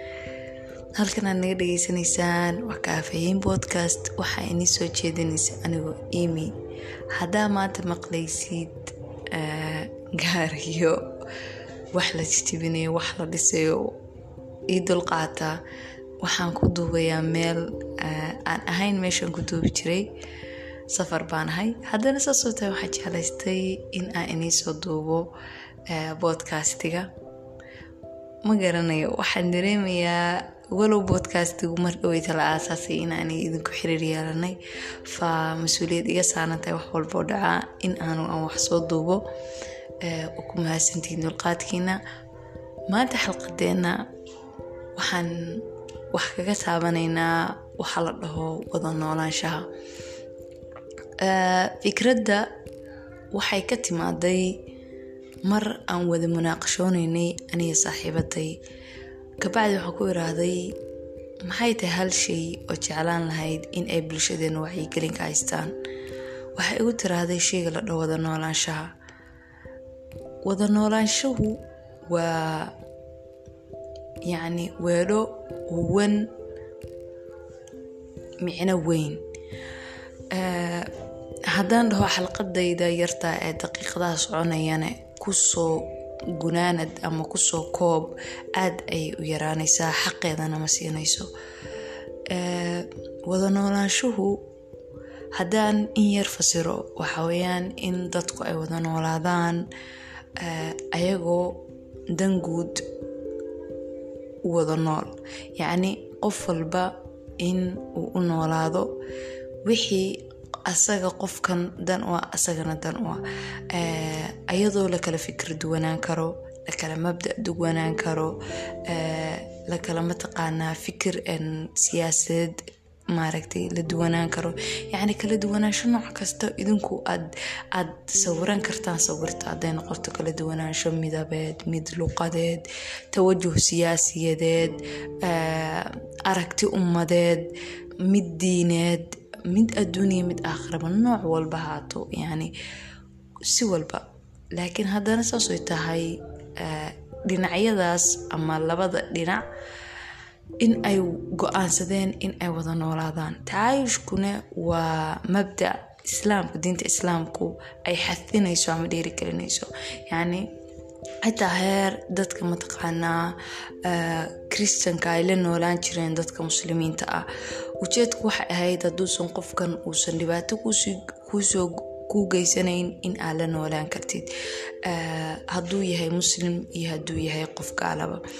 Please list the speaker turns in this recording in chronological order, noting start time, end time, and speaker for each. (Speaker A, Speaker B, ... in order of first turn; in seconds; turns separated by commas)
Speaker A: 0.9-6.5, Speaker A: 7.1-11.1, Speaker A: 11.9-13.9, Speaker A: 14.7-15.6, Speaker A: 16.2-20.1, Speaker A: 20.9-25.3, Speaker A: 25.9-27.1, Speaker A: 28.4-39.2, Speaker A: 40.0-42.0, Speaker A: 42.9-44.0, Speaker A: 45.0-49.7, Speaker A: 51.2-52.5, Speaker A: 53.3-54.6, Speaker A: 55.4-58.6, Speaker A: 59.4-60.7, Speaker A: 61.4-65.7, Speaker A: 66.5-68.9, Speaker A: 70.4-72.7, Speaker A: 74.3-76.3, Speaker A: 78.4-79.2, Speaker A: 80.3-80.9, Speaker A: 81.5-91.3, Speaker A: 92.3-94.4, Speaker A: 95.3-99.7, Speaker A: 100.4-101.6, Speaker A: 102.1-102.8, Speaker A: 104.4-108.9, Speaker A: 109.6-118.3, Speaker A: 118.9-137.4, Speaker A: 138.0-142.5, Speaker A: 143.5-149.4, Speaker A: 150.6-160.5, Speaker A: 161.2-167.2, Speaker A: 167.8-174.3, Speaker A: 174.8-178.2